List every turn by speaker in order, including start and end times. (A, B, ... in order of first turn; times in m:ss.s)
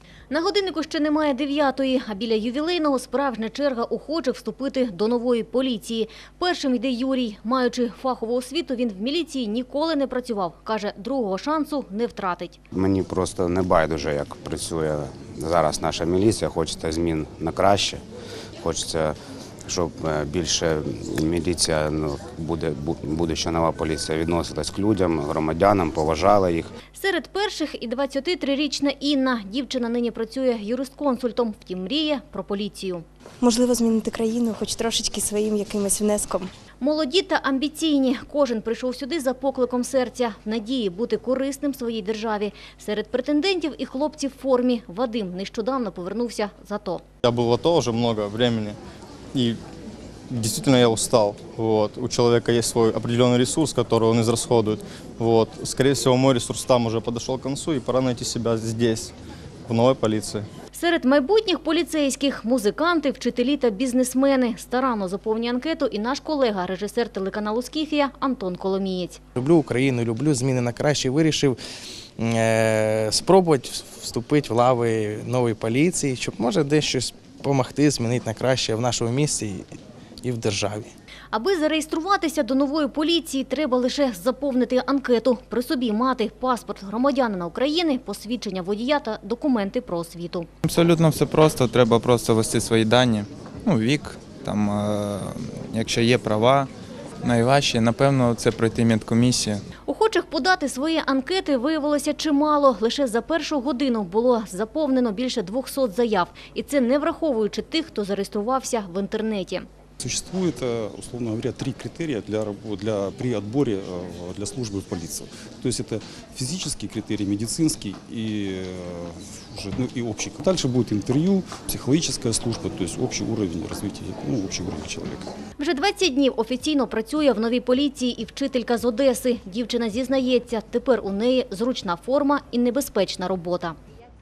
0:00.3-0:12.6 A
0:12.7-0:18.0 B
0:18.6-0:19.1 B
0:19.7-0:26.7 B
0:26.9-0:33.0 A
0:33.4-0:36.5 C
0:36.8-0:47.0 A
0:47.2-0:48.8 D
0:50.3-0:59.1 D
0:59.7-1:00.4 D
1:00.7-1:09.2 A
1:09.3-1:11.6 E
1:12.2-1:19.7 E
1:20.2-1:20.9 E
1:21.3-1:30.5 A
1:30.6-1:36.7 F
1:37.2-1:39.6 F
1:39.8-1:49.7 A
1:50.0-2:05.3 G
2:05.6-2:13.8 A